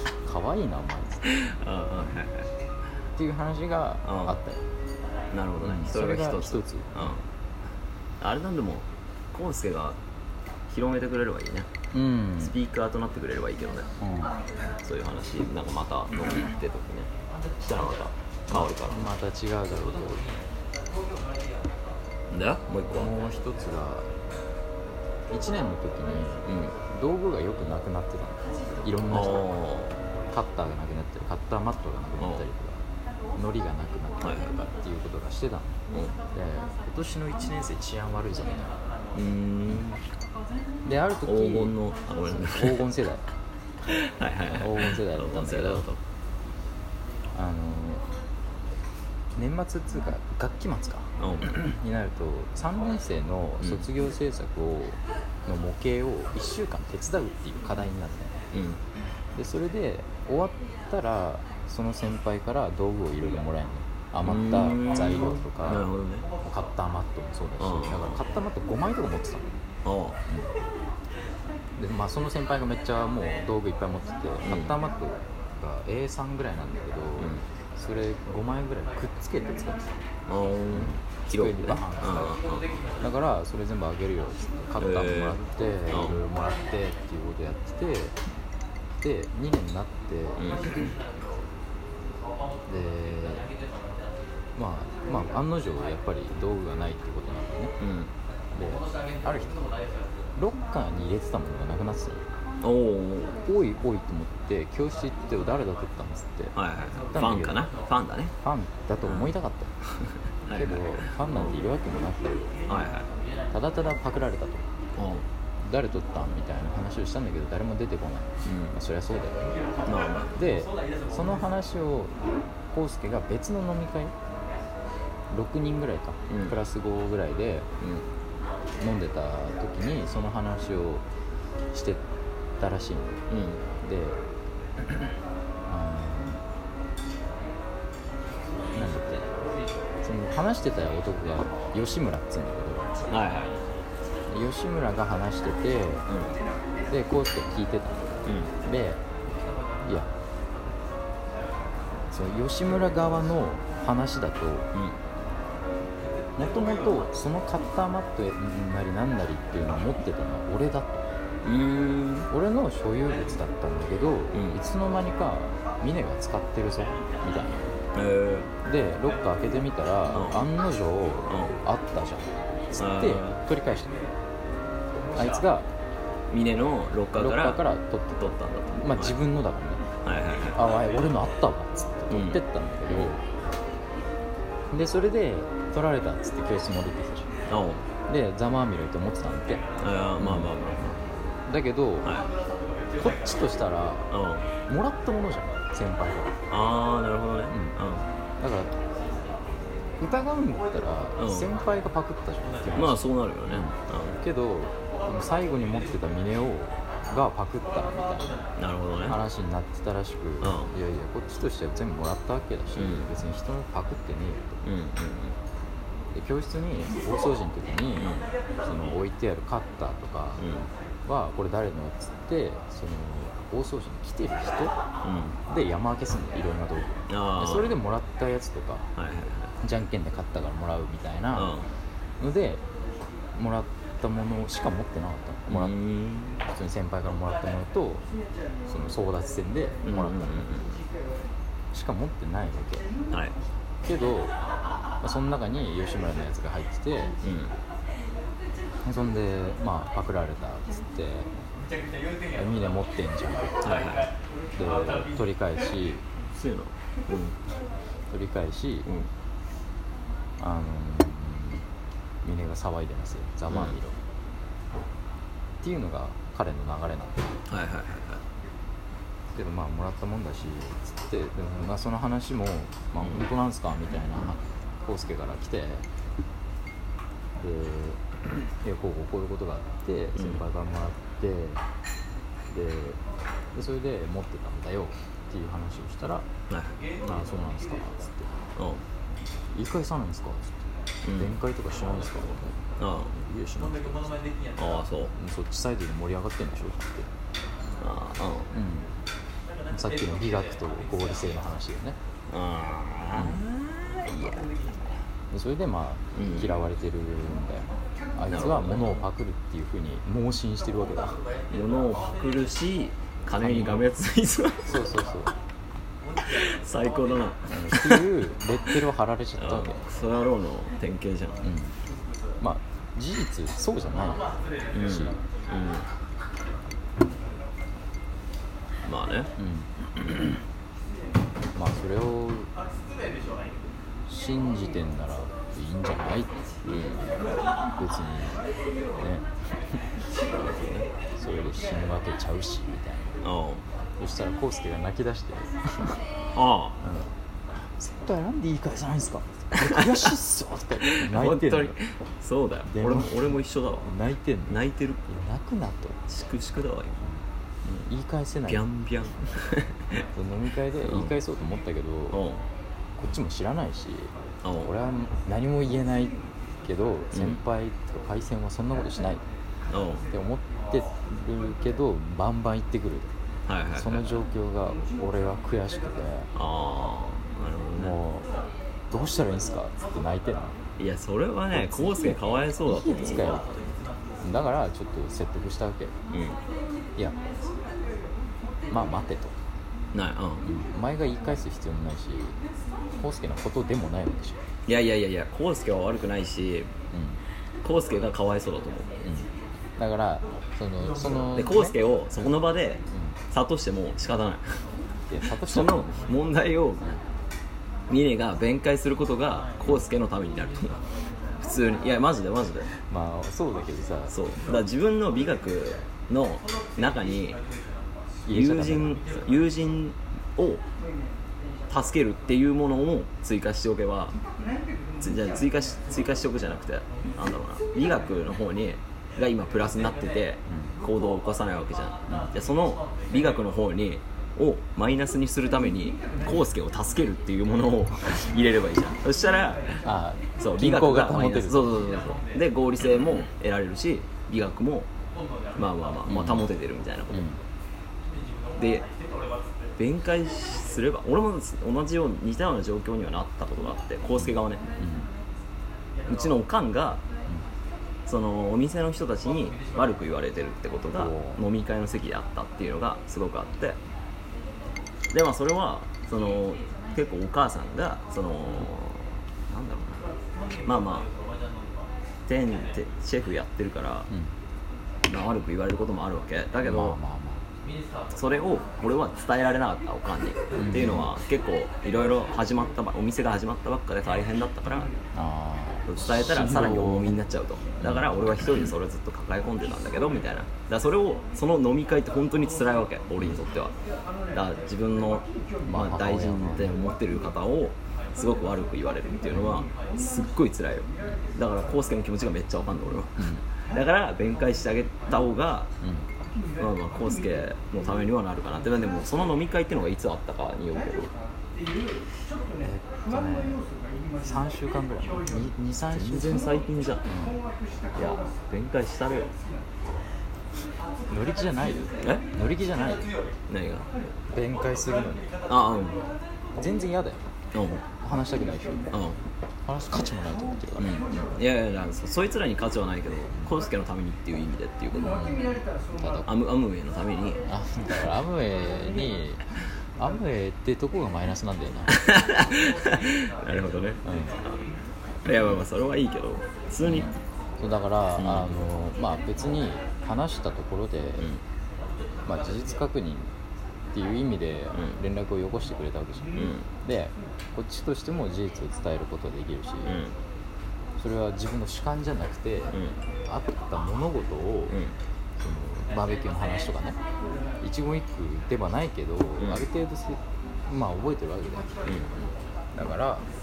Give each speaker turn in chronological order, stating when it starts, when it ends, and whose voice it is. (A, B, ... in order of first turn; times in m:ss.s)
0:00.2-0:01.2 A
0:01.3-0:02.5 B
0:03.2-0:04.6 A
0:04.0-0:04.4 B
0:05.3-0:07.2 B
0:05.6-0:07.1 A
0:08.2-0:10.0 B
0:10.7-0:11.7 B
0:11.9-0:12.6 A
0:12.4-0:13.9 B
0:14.0-0:14.4 A
0:14.8-0:19.1 B
0:18.5-0:20.3 A
0:22.3-0:23.1 B
0:22.9-0:24.1 A
0:25.3-0:29.5 A
0:26.4-0:26.8 B
0:29.1-0:29.9 B
0:30.3-0:32.8 A
0:32.2-0:32.4 B
0:33.4-0:35.8 A
0:35.9-0:36.2 B
0:36.3-0:38.8 A
0:39.1-0:40.0 B
0:40.8-0:41.8 A
0:41.3-0:42.8 B
0:42.4-0:43.2 A
0:43.9-0:46.0 B
0:44.5-0:45.9 A
0:47.3-0:48.1 A
0:49.4-0:58.3 A
0:51.2-0:51.6 B
0:53.6-0:53.9 B
0:58.5-0:58.8 B
0:59.4-1:05.9 A
1:04.2-1:06.3 B
1:06.4-1:09.6 A
1:07.6-1:08.2 B
1:09.8-1:10.2 B
1:11.8-1:19.9 A
1:14.5-1:14.8 B
1:17.2-1:17.4 B
1:20.3-1:22.7 B
1:20.7-1:22.4 A
1:23.0-1:28.2 A
1:24.8-1:25.4 B
1:25.9-1:26.2 B
1:29.0-1:30.9 A
1:30.4-1:30.9 B
1:32.7-1:33.5 A
1:34.6-1:37.8 A
1:37.8-1:38.1 B
1:38.5-1:39.6 A
1:40.4-1:42.2 A
1:42.6-1:43.4 B
1:43.4-1:46.6 A
1:46.6-1:48.3 B
1:47.1-1:47.7 A
1:48.4-1:49.7 A
1:49.0-1:49.3 B
1:49.9-1:51.0 B
1:50.5-1:52.5 A
1:52.7-1:53.1 B
1:53.5-1:54.7 A
1:55.0-1:55.2 B
1:55.6-1:59.4 A
1:58.4-1:58.8 B
1:59.9-2:00.3 B
2:00.3-2:04.2 A
2:05.3-2:07.7 A
2:06.3-2:06.6 B
2:08.8-2:11.0 A
2:11.7-2:12.0 A
2:12.6-2:13.2 A
2:13.3-2:13.6 B
2:13.8-2:14.2 A
2:15.7-2:16.4 A
2:18.7-2:19.3 A
2:20.0-2:23.1 A
2:23.1-2:23.6 B
2:24.3-2:26.1 A
2:26.1-2:26.4 B
2:26.9-2:29.0 A
2:28.3-2:28.5 B
2:29.8-2:30.1 A
2:32.1-2:34.7 A
2:36.4-2:41.1 A
2:41.4-2:42.3 B
2:42.3-2:47.8 A
2:44.3-2:44.6 B
2:48.0-2:48.5 B
2:48.6-2:54.0 A
2:50.1-2:50.4 B
2:51.3-2:51.6 B
2:52.8-2:53.4 B
2:55.1-2:55.7 A
2:56.3-2:57.6 B
2:57.1-2:58.2 A
2:58.2-2:59.2 B
2:58.8-2:59.8 A
3:00.0-3:00.6 B
3:00.6-3:03.2 A
3:02.1-3:03.1 B
3:04.7-3:07.3 A
3:07.5-3:07.8 B
3:08.1-3:09.6 A
3:09.8-3:11.0 B
3:10.2-3:10.5 A
3:11.5-3:12.2 A
3:12.0-3:12.3 B
3:13.0-3:14.1 A
3:14.1-3:14.5 B
3:14.7-3:16.3 A
3:16.5-3:18.0 B
3:17.5-3:17.8 A
3:18.4-3:18.7 A
3:20.0-3:28.4 A
3:21.2-3:21.5 B
3:22.8-3:24.2 B
3:28.6-3:29.2 B
3:29.1-3:34.6 A
3:30.4-3:30.7 B
3:32.8-3:33.1 B
3:34.6-3:35.4 B
3:36.1-3:40.5 A
3:38.0-3:38.2 B
3:40.4-3:40.7 B
3:41.1-3:44.8 A
3:45.0-3:45.4 B
3:45.5-3:48.9 A
3:47.1-3:47.8 B
3:49.0-3:49.5 B
3:49.6-3:51.6 A
3:51.4-3:51.7 B
3:52.2-3:52.6 A
3:53.3-3:55.8 A
3:55.5-3:56.4 B
3:56.5-3:58.0 A
3:58.7-4:00.5 A
3:59.8-4:00.8 B
4:01.7-4:02.9 A
4:03.8-4:04.3 A
4:05.0-4:07.2 A
4:07.2-4:07.5 B
4:08.8-4:11.3 A
4:12.3-4:13.6 A
4:13.6-4:14.1 B
4:14.6-4:16.0 A
4:16.4-4:17.4 B
4:18.1-4:18.9 A
4:20.4-4:21.7 A
4:22.2-4:24.0 A
4:23.5-4:23.8 B
4:25.6-4:27.3 A
4:27.5-4:28.2 B
4:29.3-4:35.9 A
4:37.4-4:38.0 A
4:38.6-4:41.6 A
4:40.2-4:40.4 B
4:42.5-4:43.0 A
4:43.5-4:46.3 A
4:46.5-4:46.8 B
4:47.0-4:48.3 A
4:48.6-4:48.8 B
4:49.5-4:50.6 A
4:51.0-4:51.3 B
4:51.1-4:54.2 A
4:52.8-4:53.2 B
4:54.6-4:55.1 B
4:55.1-4:57.1 A
4:57.8-4:58.5 B
4:58.5-4:58.9 A
4:59.7-5:02.0 A
5:02.3-5:04.5 B
5:03.1-5:03.4 A
5:05.3-5:11.2 A
5:06.2-5:06.5 B
5:08.3-5:09.0 B
5:11.5-5:14.7 B
5:13.4-5:13.9 A
5:14.7-5:15.3 A
5:16.2-5:18.0 B
5:17.5-5:19.8 A
5:19.4-5:21.4 B
5:21.4-5:21.8 A
5:22.4-5:25.2 A
5:24.7-5:25.9 B
5:28.8-5:29.3 B
5:29.4-5:29.7 A
5:31.6-5:32.5 A
5:34.1-5:36.4 A
5:36.6-5:37.1 B
5:37.8-5:38.4 A
5:39.0-5:39.8 A
5:40.4-5:40.9 B
5:41.2-5:43.2 A
5:43.2-5:43.6 B
5:44.0-5:46.0 A
5:46.4-5:46.8 B
5:46.8-5:47.1 A
5:47.7-5:51.8 A
5:49.6-5:50.1 B
5:50.8-5:53.9 B
5:52.7-5:56.0 A
5:54.5-5:55.0 B
5:56.1-5:57.0 B
5:57.9-5:58.6 A
5:58.5-6:00.0 B
6:00.2-6:02.2 A
6:00.8-6:01.1 B
6:02.1-6:02.4 B
6:03.0-6:09.2 A
6:04.4-6:04.7 B
6:07.1-6:07.4 B
6:09.7-6:10.0 B
6:10.1-6:13.1 A
6:13.5-6:14.1 B
6:13.7-6:16.3 A
6:16.4-6:18.0 B
6:17.8-6:18.3 A
6:18.9-6:20.6 A
6:20.8-6:23.4 B
6:21.5-6:23.6 A
6:24.2-6:26.0 A
6:26.1-6:26.4 B
6:28.7-6:29.4 A
6:29.9-6:30.5 B
6:30.4-6:32.4 A
6:33.0-6:34.4 A
6:34.7-6:36.7 B
6:36.9-6:37.2 A
6:37.6-6:38.9 B
6:39.0-6:41.8 A
6:41.3-6:44.6 B
6:42.9-6:43.2 A
6:45.1-6:46.2 A
6:45.3-6:46.9 B
6:47.9-6:50.8 B
6:51.4-6:52.7 B
6:52.9-6:54.2 A
6:54.1-6:57.4 B
6:58.3-6:59.0 A
6:58.3-7:00.6 B
7:01.7-7:04.2 B
7:05.0-7:19.8 B
7:10.5-7:10.7 A
7:19.8-7:21.9 A
7:20.4-7:24.9 B
7:25.6-7:27.3 B
7:26.1-7:26.5 A
7:27.1-7:27.4 A
7:28.6-7:28.9 B
7:29.8-7:34.6 B
7:34.2-7:35.1 A
7:36.1-7:37.0 B
7:38.1-7:43.8 B
7:40.9-7:41.4 A
7:45.1-7:50.1 B
7:50.6-7:51.1 B
7:52.3-7:54.1 B
7:55.1-7:57.0 B
7:56.6-7:57.4 A
7:58.1-8:04.9 B
8:00.6-8:01.1 A
8:05.1-8:07.2 A
8:05.9-8:13.7 B
8:07.8-8:08.1 A
8:14.3-8:25.7 B
8:15.7-8:16.8 A
8:19.4-8:19.6 A
8:23.2-8:23.4 A
8:25.8-8:26.1 A
8:26.6-8:31.1 B
8:32.6-8:33.6 A
8:34.2-8:36.5 A
8:35.9-8:37.0 B
8:37.1-8:37.4 A
8:38.0-8:39.3 B
8:41.1-8:43.1 A
8:43.5-8:43.9 B
8:44.3-8:45.3 A
8:45.5-8:46.1 B
8:46.6-8:47.2 A
8:47.5-8:47.8 B
8:48.0-8:48.9 A
8:48.9-8:49.2 B
8:49.7-8:51.0 A
8:50.8-8:55.2 B
8:55.0-8:56.3 A
8:56.2-8:57.4 B
8:57.5-8:59.4 A
9:00.0-9:02.0 A
9:01.9-9:04.0 B
9:04.0-9:04.4 A
9:05.2-9:07.1 B
9:06.8-9:11.3 A
9:08.2-9:08.5 B
9:12.2-9:13.3 A
9:13.9-9:20.0 A
9:16.4-9:16.7 B
9:19.8-9:20.2 B
9:21.0-9:24.8 A
9:24.7-9:25.0 B
9:25.4-9:27.0 A
9:27.6-9:31.7 A
9:31.9-9:32.1 B
9:32.7-9:33.3 A